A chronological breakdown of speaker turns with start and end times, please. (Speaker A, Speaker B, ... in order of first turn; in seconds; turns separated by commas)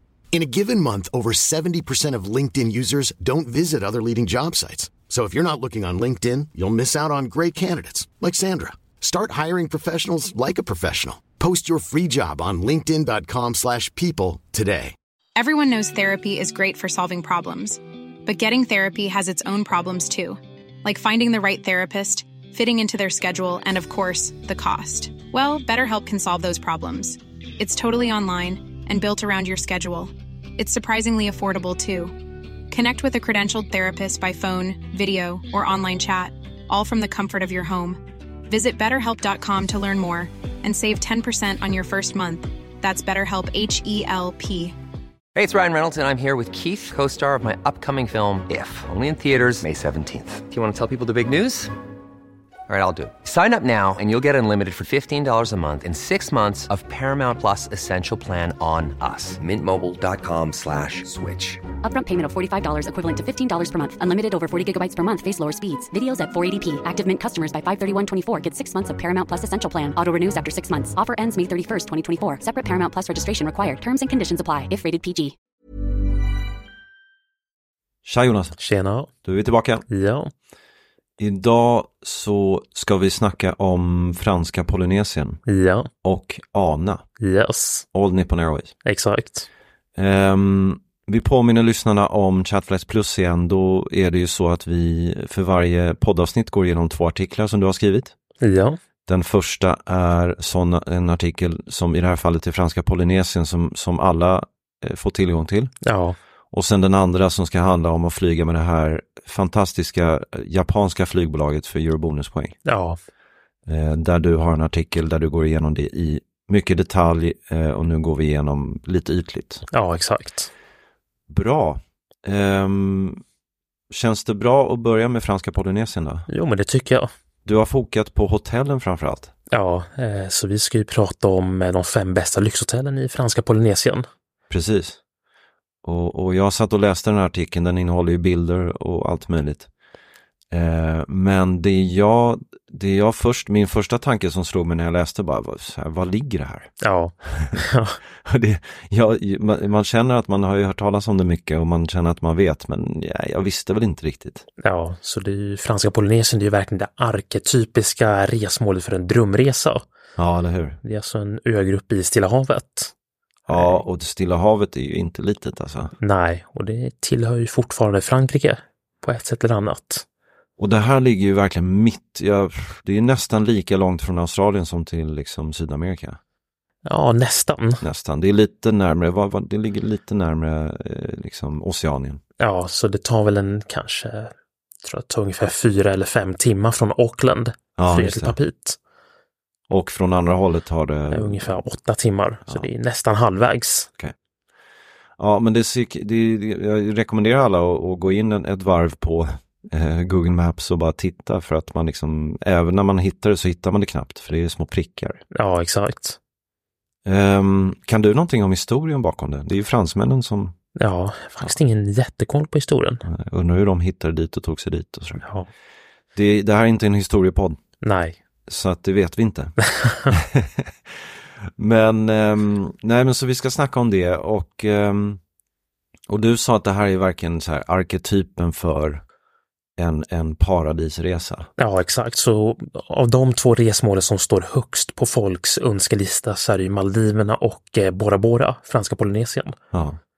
Speaker A: 0.3-14.9, Speaker B: 15.3-32.1, Speaker B: 32.7-44.8, Speaker C: 45.3-51.7, Speaker C: 52.7-61.6, Speaker D: 61.8-75.3, Speaker E: 78.0-78.6, Speaker F: 78.6-79.1, Speaker E: 79.2-79.8, Speaker F: 79.9-80.3, Speaker E: 81.2-85.4, Speaker F: 85.5-85.9, Speaker E: 86.0-87.0, Speaker F: 87.2-87.8, Speaker E: 87.9-88.7, Speaker F: 88.8-89.5, Speaker E: 89.9-98.1, Speaker F: 98.4-98.8, Speaker E: 99.1-105.7, Speaker F: 105.8-106.2, Speaker E: 106.5-112.5, Speaker F: 112.6-113.0, Speaker E: 113.7-119.6, Speaker F: 119.7-120.5, Speaker E: 121.3-123.2, Speaker E: 123.9-126.2, Speaker F: 126.3-127.1, Speaker E: 127.4-129.3, Speaker F: 129.5-134.1, Speaker E: 134.5-135.0, Speaker E: 135.8-139.7, Speaker E: 140.5-146.7, Speaker F: 146.8-148.0, Speaker E: 147.3-147.6, Speaker E: 148.2-154.4, Speaker F: 154.6-159.8, Speaker E: 160.2-160.8, Speaker F: 160.8-162.9, Speaker E: 163.5-165.9, Speaker F: 163.5-163.8, Speaker F: 166.0-170.0, Speaker E: 170.6-176.2, Speaker F: 176.8-177.8, Speaker E: 177.8-182.2, Speaker F: 182.4-188.8, Speaker E: 187.8-188.3, Speaker E: 189.7-191.4, Speaker F: 191.1-193.9, Speaker E: 195.2-205.2, Speaker F: 205.3-206.2, Speaker E: 207.0-210.5, Speaker F: 210.8-213.0, Speaker E: 213.0-215.2, Speaker F: 215.2-215.5, Speaker E: 216.1-217.6, Speaker F: 217.8-218.2, Speaker E: 218.5-219.5, Speaker F: 219.7-220.1, Speaker E: 220.1-225.2, Speaker E: 226.1-229.0, Speaker E: 229.8-231.5, Speaker F: 231.6-239.6, Speaker E: 239.7-240.0